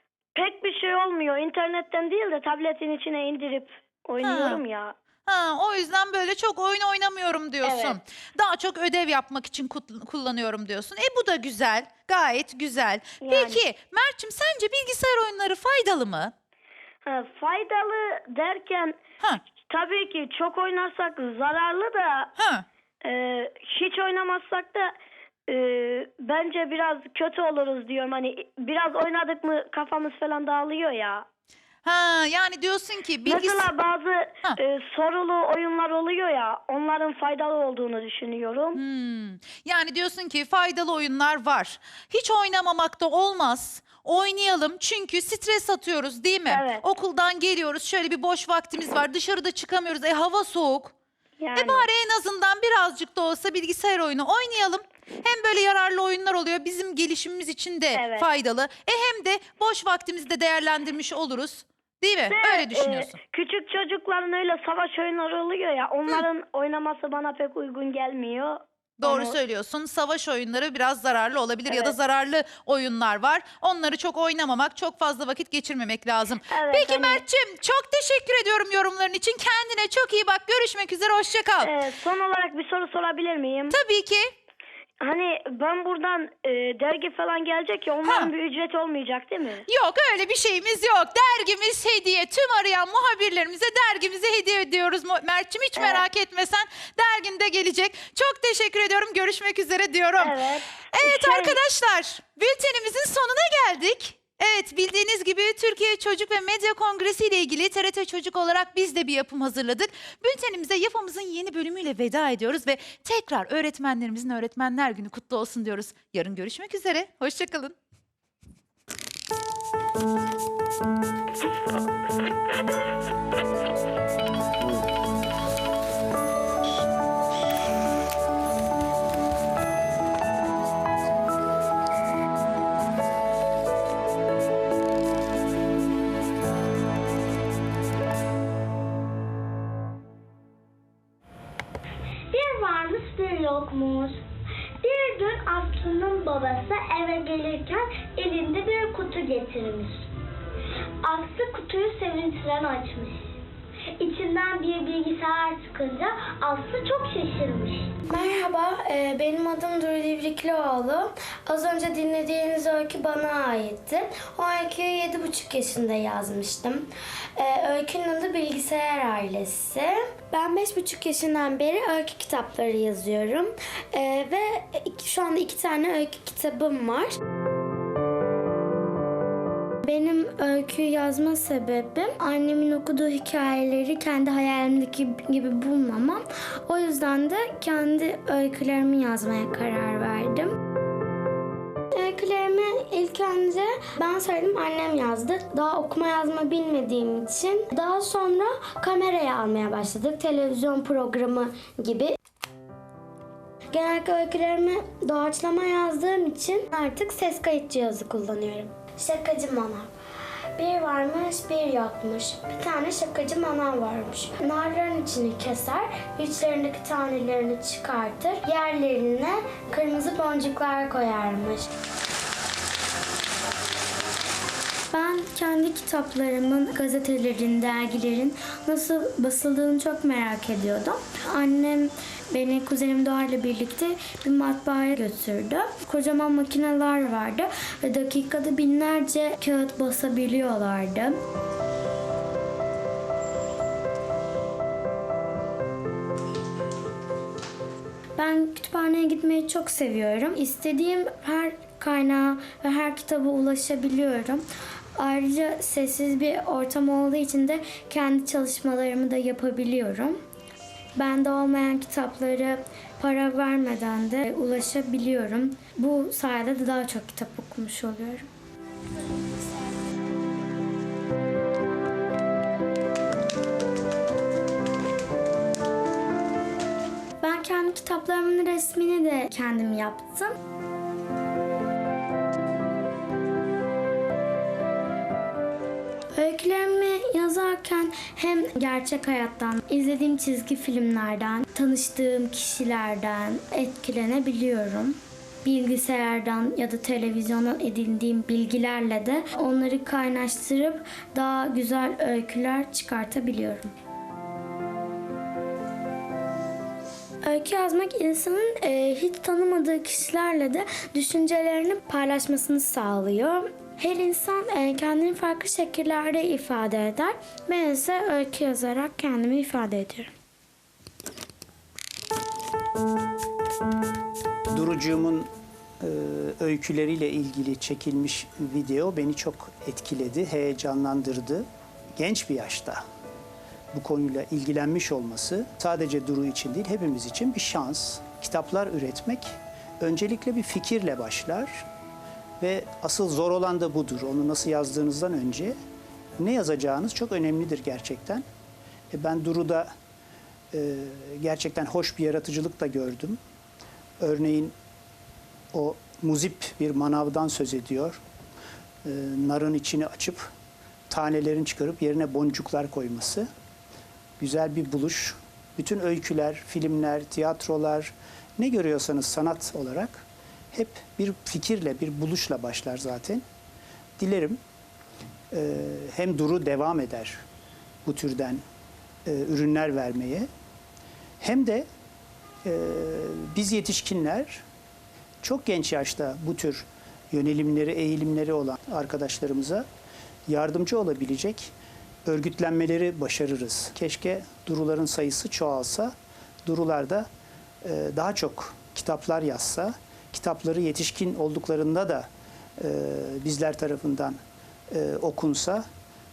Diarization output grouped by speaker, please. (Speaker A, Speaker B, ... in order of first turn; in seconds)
Speaker A: 0.3-4.9, 7.6-8.0, 13.2-13.6, 17.0-19.0, 19.7-22.3, 23.0-24.9, 25.5-31.2, 33.2-38.8, 46.5-46.8, 51.4-51.9, 57.9-58.2, 62.3-69.3, 71.7-71.9, 76.5-77.2, 81.6-83.8, 85.0-89.6, 95.8-96.0, 100.2-101.6
Speaker B: 4.2-4.6, 5.3-16.3, 22.4-22.6, 31.8-33.7, 38.7-50.9, 51.5-63.1, 69.0-81.7, 83.7-84.3, 88.0-88.3, 89.7-100.3, 100.9-117.7
Speaker C: 142.3-144.1, 144.8-149.9, 151.0-153.1, 154.0-157.8
Speaker D: 158.1-177.1, 179.8-190.5, 191.9-202.1, 203.7-209.9, 210.6-221.7, 224.9-241.1, 248.2-254.4, 255.0-260.2, 261.0-268.3, 277.2-280.4, 286.1-303.7, 307.2-320.1
Speaker E: 324.5-325.3, 325.8-331.4, 332.0-332.8, 333.7-341.6, 342.4-345.5, 346.2-348.2, 348.9-349.7, 350.5-353.2, 354.0-354.5, 355.5-358.0, 358.8-360.3, 360.9-363.3, 364.2-373.2, 374.0-374.4, 375.3-377.2, 377.8-378.4, 379.1-380.3, 381.2-381.7, 382.4-384.4, 385.2-389.6, 390.3-391.5, 392.1-395.9, 396.4-397.1, 397.6-404.2, 404.7-405.6